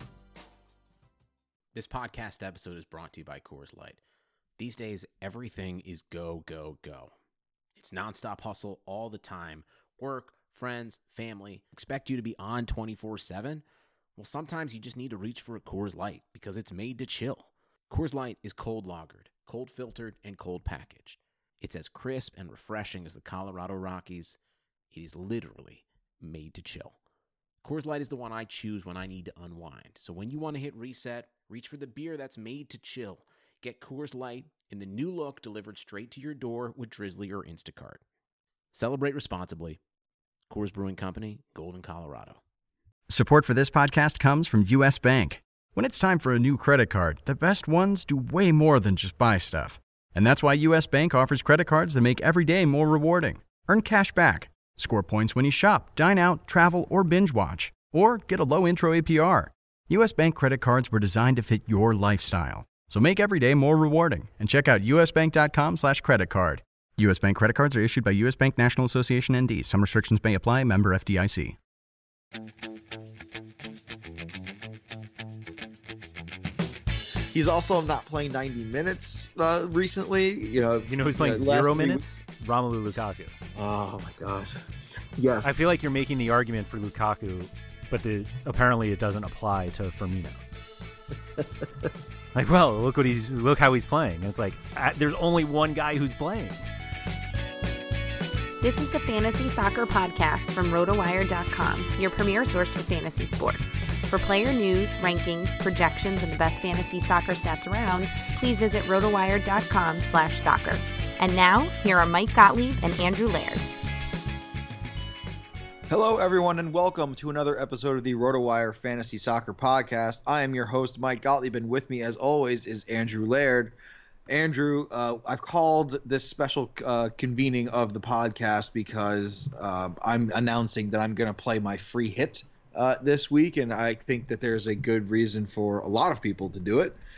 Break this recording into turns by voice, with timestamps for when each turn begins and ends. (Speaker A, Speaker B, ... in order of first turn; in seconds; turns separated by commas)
Speaker A: 1.7-4.0, Speaker A: 4.6-7.1, Speaker A: 7.8-13.6, Speaker A: 14.2-24.4, Speaker A: 24.9-26.9, Speaker A: 27.6-38.0, Speaker A: 38.7-39.8, Speaker A: 40.5-42.4, Speaker B: 43.1-71.5, Speaker C: 77.3-82.0, Speaker D: 80.9-83.3, Speaker C: 83.5-84.6, Speaker C: 85.2-85.6, Speaker D: 85.4-90.4, Speaker D: 92.3-96.6, Speaker E: 98.6-113.7, Speaker C: 115.9-123.7, Speaker C: 124.3-137.0